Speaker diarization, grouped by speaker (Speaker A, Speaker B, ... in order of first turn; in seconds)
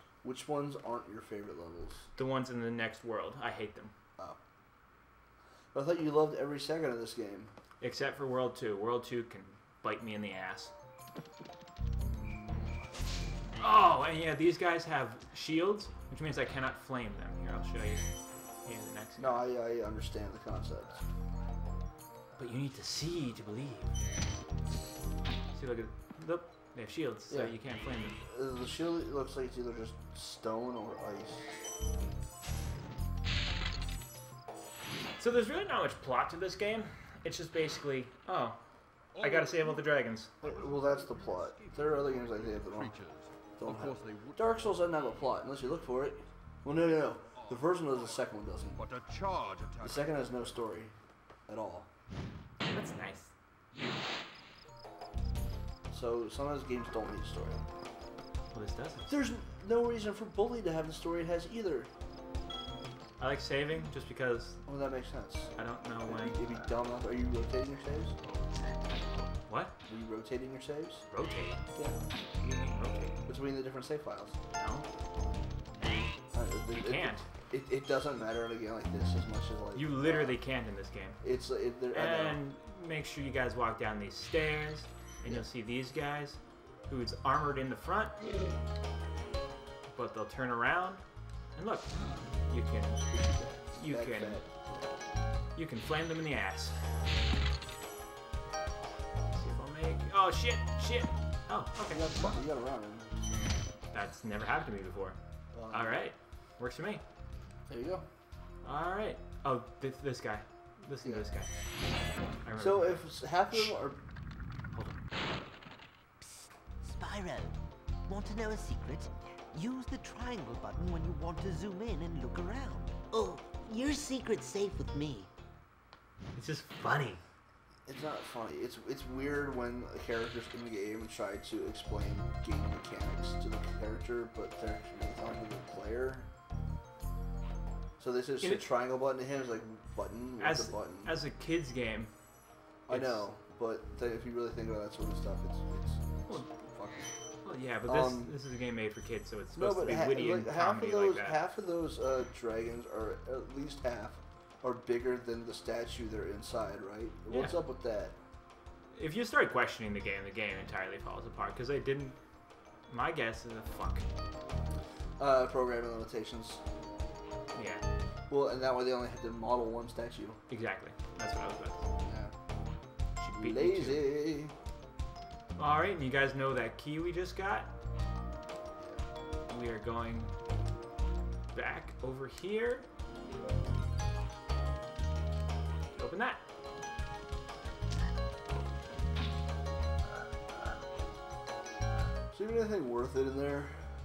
Speaker A: 0.2-2.1, 5.7-7.5, 12.0-13.2, 19.2-21.1, 27.3-27.6, 28.2-31.5, 40.4-43.0, 43.6-48.8, 49.8-50.9, 51.5-51.9, 55.9-57.6, 59.1-61.9, 64.7-68.2, 69.9-71.1, 73.3-74.4, 76.3-80.4, 81.2-82.4, 93.0-95.0, 101.9-103.2, 105.5-106.0, 107.7-108.0, 112.6-114.0, 127.9-136.3, 138.0-141.2, 142.9-147.1, 147.8-148.4, 149.6-158.2, 165.2-166.6, 168.3-170.4, 172.0-172.3, 173.4-174.5, 178.8-179.0, 192.3-193.9
Speaker B: 2.2-3.9, 7.8-10.7, 13.6-18.0, 18.6-19.5, 22.4-24.0, 25.5-28.2, 35.2-38.6, 39.2-40.3, 52.7-53.3, 58.5-59.3, 63.2-64.6, 65.6-66.4, 69.5-69.7, 71.1-71.6, 72.4-73.2, 74.6-74.9, 76.7-77.2, 79.8-81.2, 81.9-88.2, 89.9-91.0, 91.6-93.1, 93.7-94.4, 95.6-96.8, 99.3-102.4, 103.9-105.2, 105.7-107.0, 108.6-111.5, 112.5-113.8, 114.7-115.0, 126.4-127.2, 140.4-142.1, 142.9-143.2, 147.4-151.4, 157.3-157.6, 158.9-162.2, 162.9-164.1, 167.5-167.8, 170.5-171.9, 173.2-174.1, 175.6-177.7, 179.5-180.3, 181.5-182.9, 186.0-186.4
Speaker C: 39.2-39.8, 40.4-45.3, 47.4-48.2, 48.8-50.4
Speaker D: 116.8-125.3